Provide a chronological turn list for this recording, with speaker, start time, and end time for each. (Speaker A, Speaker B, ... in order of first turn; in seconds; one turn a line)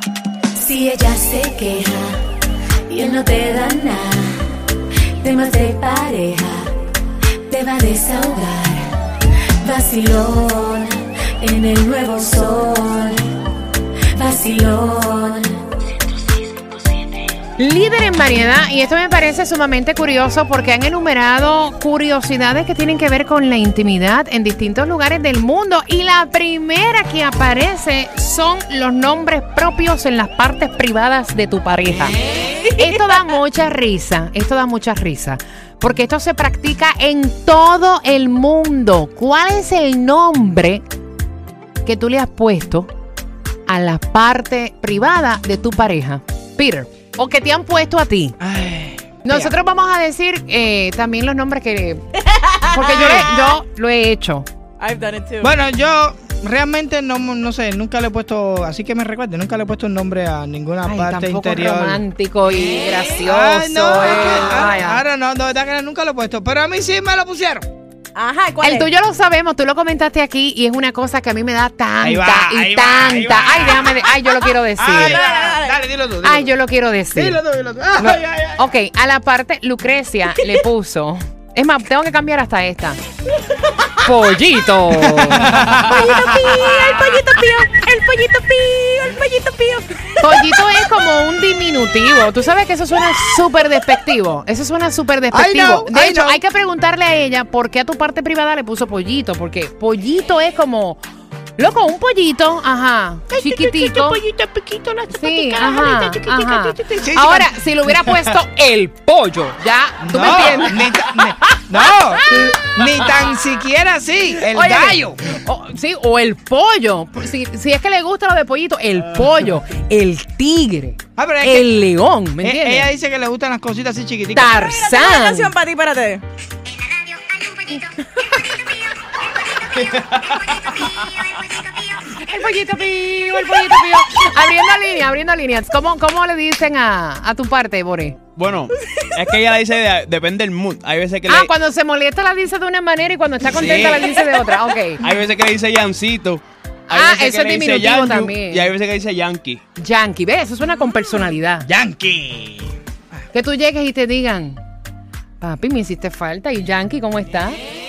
Speaker A: 0.6-2.1
Speaker A: 2.9-4.4
Speaker A: 5.2-6.7
Speaker A: 7.5-8.8
Speaker A: 9.6-13.2
Speaker A: 14.2-15.5
Speaker B: 17.6-32.1
Speaker B: 32.7-40.8
Speaker B: 41.8-42.9
Speaker B: 43.7-48.4
Speaker C: 48.4-49.5
Speaker B: 49.2-52.0
Speaker D: 52.3-53.3
Speaker B: 52.7-54.5
Speaker C: 52.8-53.3
Speaker D: 54.8-55.5
Speaker C: 55.4-62.0
Speaker B: 60.8-65.0
Speaker C: 63.2-67.7
Speaker D: 68.1-68.9
Speaker B: 68.6-75.2
Speaker C: 72.0-76.5
Speaker D: 75.0-75.8
Speaker B: 76.2-77.4
Speaker C: 77.1-78.6
Speaker B: 78.0-83.0
Speaker B: 84.0-85.6
Speaker C: 85.3-86.0
Speaker D: 85.7-90.6
Speaker B: 90.2-101.0
Speaker C: 95.3-96.4
Speaker B: 101.6-104.2
Speaker C: 104.1-104.9
Speaker B: 105.1-111.0
Speaker C: 106.0-107.5
Speaker C: 110.0-115.2
Speaker B: 114.5-122.9
Speaker C: 121.2-121.7
Speaker C: 122.4-124.5
Speaker B: 124.3-125.5
Speaker D: 124.5-126.2
Speaker D: 128.3-128.6
Speaker E: 129.9-130.9
Speaker B: 132.1-138.2
Speaker E: 138.3-141.5
Speaker B: 141.3-145.0
Speaker C: 143.6-144.1
Speaker E: 145.0-149.6
Speaker B: 146.9-148.7
Speaker B: 149.8-151.7
Speaker C: 151.6-152.7
Speaker B: 153.3-154.6
Speaker B: 155.4-157.6